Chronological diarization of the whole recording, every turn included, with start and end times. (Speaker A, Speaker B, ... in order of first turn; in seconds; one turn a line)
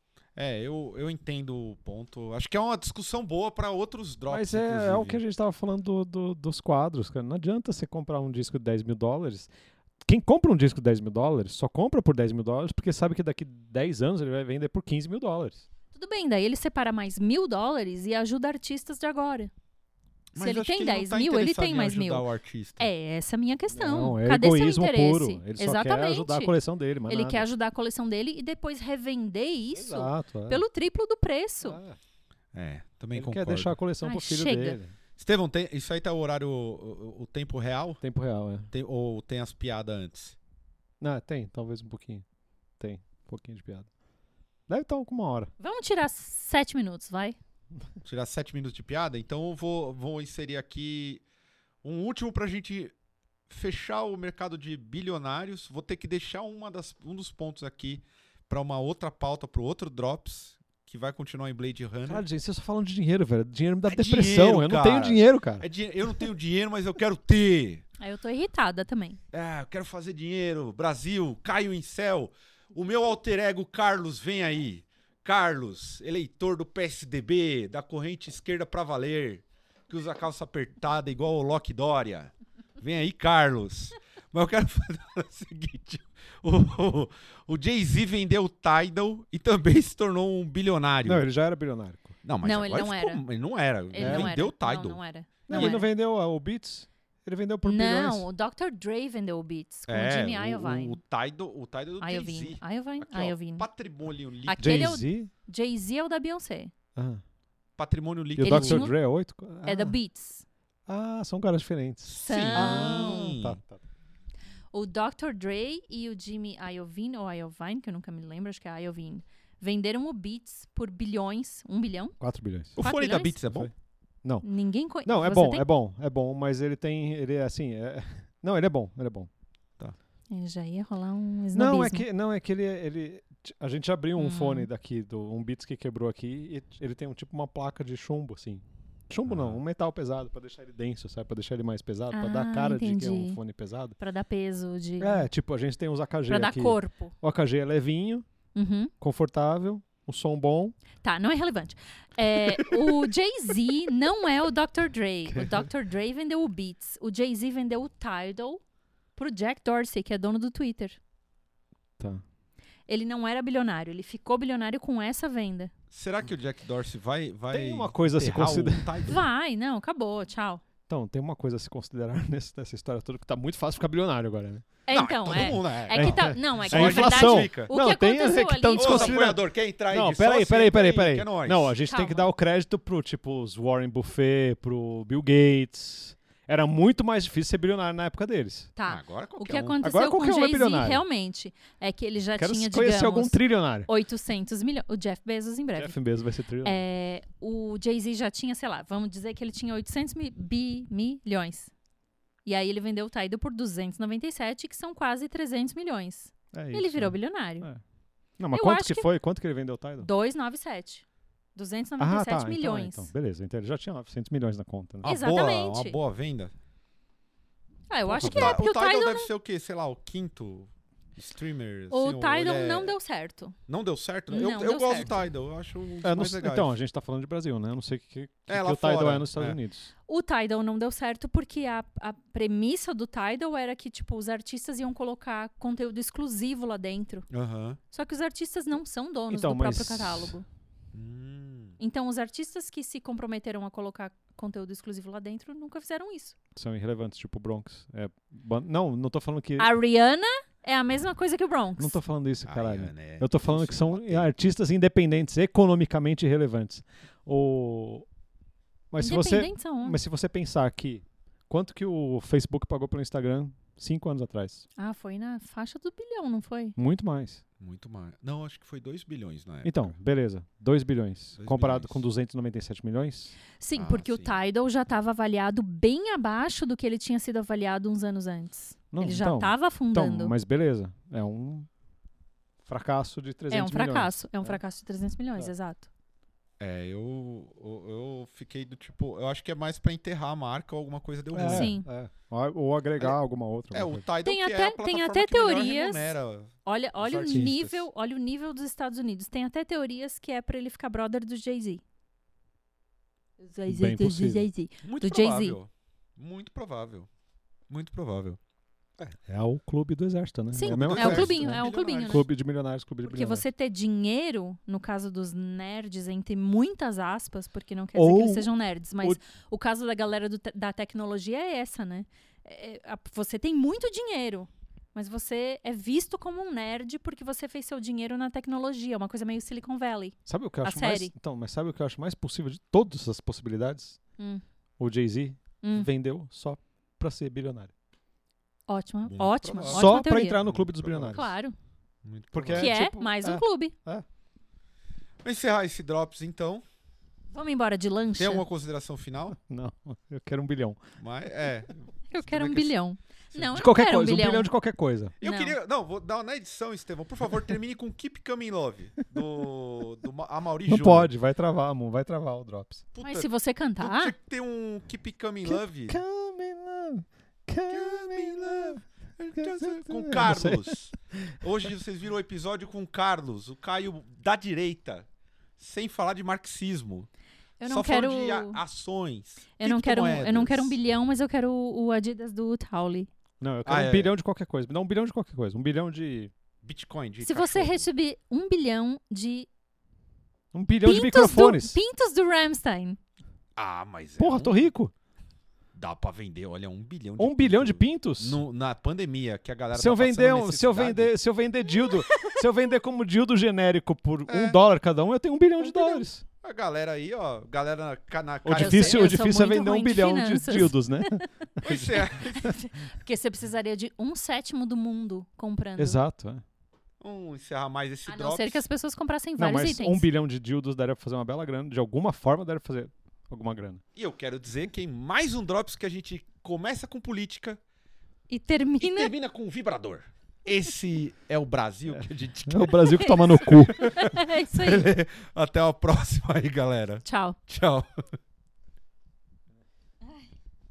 Speaker A: 0.3-5.2
Speaker B: 4.3-9.5
Speaker B: 10.0-15.7
Speaker C: 15.9-19.5
Speaker A: 20.3-22.9
Speaker C: 20.4-22.2
Speaker C: 22.8-26.5
Speaker B: 23.7-27.4
Speaker C: 27.1-31.8
Speaker B: 29.8-30.6
Speaker B: 31.6-32.0
Speaker A: 32.5-33.8
Speaker B: 33.1-34.9
Speaker C: 34.0-34.8
Speaker A: 35.2-38.0
Speaker B: 38.0-38.7
Speaker A: 38.7-40.4
Speaker B: 41.0-42.2
Speaker B: 42.8-43.9
Speaker B: 44.7-45.5
Speaker C: 45.6-47.4
Speaker A: 48.0-51.2
Speaker A: 51.8-52.9
Speaker A: 53.5-62.2
Speaker B: 62.1-65.7
Speaker A: 63.9-67.8
Speaker C: 68.0-69.2
Speaker A: 69.3-91.2
Speaker B: 91.0-92.2
Speaker A: 92.2-95.8
Speaker C: 92.4-93.2
Speaker C: 93.9-95.9
Speaker B: 94.0-94.3
Speaker B: 95.5-98.2
Speaker C: 97.6-101.0
Speaker A: 99.9-105.0
Speaker C: 102.0-103.7
Speaker C: 104.5-106.7
Speaker B: 104.6-105.3
Speaker B: 107.0-107.2
Speaker A: 107.8-108.9
Speaker B: 108.4-110.0
Speaker C: 108.4-110.4
Speaker B: 110.9-113.8
Speaker A: 112.0-113.6
Speaker C: 112.2-113.3
Speaker C: 114.7-122.1
Speaker B: 122.2-122.8
Speaker A: 122.8-123.7
Speaker C: 122.8-123.4
Speaker C: 124.4-125.6
Speaker B: 125.0-129.3
Speaker C: 130.3-132.0
Speaker B: 131.5-143.9
Speaker C: 134.2-134.7
Speaker A: 139.3-139.6
Speaker C: 142.1-143.4
Speaker C: 144.0-145.3
Speaker B: 145.0-148.2
Speaker C: 146.3-147.1
Speaker C: 148.5-148.9
Speaker B: 149.0-150.8
Speaker C: 151.0-158.6
Speaker B: 155.3-155.6
Speaker C: 159.2-161.0
Speaker B: 162.0-162.2
Speaker C: 162.9-165.7
Speaker A: 165.9-169.3
Speaker B: 167.5-169.1
Speaker C: 169.1-170.6
Speaker B: 170.9-174.7
Speaker C: 174.8-179.2
Speaker A: 174.9-177.7
Speaker B: 175.3-188.7
Speaker A: 178.8-181.7
Speaker C: 181.9-182.3
Speaker C: 188.8-196.0
Speaker A: 188.8-189.8
Speaker B: 189.8-191.0
Speaker B: 192.4-193.9
Speaker B: 195.8-196.8
Speaker C: 196.6-201.7
Speaker C: 202.4-207.7
Speaker B: 206.5-207.8
Speaker B: 208.4-210.1
Speaker C: 208.5-209.1
Speaker C: 210.0-211.0
Speaker C: 211.5-213.1
Speaker B: 212.0-215.1
Speaker A: 215.0-216.5
Speaker C: 215.0-216.0
Speaker C: 217.9-219.3
Speaker A: 218.1-222.9
Speaker B: 218.1-218.5
Speaker C: 221.9-223.6
Speaker A: 223.7-226.7
Speaker C: 224.3-225.2
Speaker B: 226.0-229.9
Speaker A: 228.5-229.6
Speaker C: 230.1-237.3
Speaker A: 237.3-237.8
Speaker C: 237.9-240.4
Speaker B: 239.3-240.4
Speaker A: 240.9-241.8
Speaker C: 241.8-246.3
Speaker B: 246.5-249.7
Speaker C: 249.6-252.0
Speaker B: 251.8-258.1
Speaker A: 252.4-254.3
Speaker B: 258.9-264.6
Speaker C: 259.0-260.0
Speaker C: 264.8-266.8
Speaker B: 266.8-267.4
Speaker A: 267.6-269.9
Speaker B: 269.6-273.3
Speaker A: 271.4-272.0
Speaker C: 273.6-280.3
Speaker A: 273.7-274.4
Speaker B: 278.9-281.7
Speaker B: 282.6-284.6
Speaker C: 283.5-285.9
Speaker A: 286.6-291.7
Speaker B: 291.3-294.0
Speaker C: 291.5-291.9
Speaker A: 293.7-297.9
Speaker C: 294.2-296.1
Speaker C: 296.6-301.8
Speaker C: 303.4-305.6
Speaker B: 303.7-304.4
Speaker A: 304.8-307.1
Speaker A: 307.7-308.4
Speaker B: 309.0-313.4
Speaker C: 310.5-312.3
Speaker A: 310.7-312.2
Speaker C: 313.0-331.1
Speaker B: 317.9-318.5
Speaker B: 330.2-334.0
Speaker B: 334.8-337.7
Speaker C: 335.6-335.9
Speaker C: 338.7-340.4
Speaker A: 339.1-341.3
Speaker B: 339.7-341.3
Speaker C: 341.0-341.5
Speaker A: 342.0-342.7
Speaker B: 342.3-344.0
Speaker C: 342.5-343.7
Speaker A: 345.2-346.6
Speaker C: 347.3-348.4
Speaker A: 348.2-349.4
Speaker B: 349.4-350.8
Speaker A: 351.0-352.8
Speaker C: 352.1-354.5
Speaker A: 353.3-353.6
Speaker B: 353.5-355.1
Speaker A: 355.2-361.1
Speaker C: 355.2-355.5
Speaker B: 360.7-362.8
Speaker A: 362.9-366.0
Speaker C: 363.0-364.1
Speaker B: 365.4-368.8
Speaker A: 367.7-375.1
Speaker B: 369.3-371.3
Speaker A: 375.6-377.1
Speaker C: 377.6-378.6
Speaker A: 377.6-380.7
Speaker C: 379.6-383.1
Speaker B: 383.4-386.3
Speaker A: 383.6-384.1
Speaker A: 386.6-387.9
Speaker C: 387.2-389.5
Speaker B: 390.5-391.8
Speaker C: 390.8-393.0
Speaker A: 393.6-394.6
Speaker B: 394.2-394.9
Speaker A: 395.7-401.1
Speaker B: 397.2-398.4
Speaker B: 399.7-406.2
Speaker C: 401.8-402.4
Speaker A: 404.3-404.6
Speaker C: 405.6-406.0
Speaker A: 406.4-409.2
Speaker B: 408.4-412.5
Speaker C: 408.6-411.3
Speaker A: 411.6-412.6
Speaker C: 411.9-416.0
Speaker B: 415.8-416.4
Speaker A: 417.0-418.6
Speaker C: 418.1-420.1
Speaker B: 419.4-423.8
Speaker A: 423.9-427.6
Speaker C: 428.3-429.1
Speaker A: 428.8-438.0
Speaker B: 431.9-433.9
Speaker C: 433.0-434.9
Speaker C: 437.1-437.4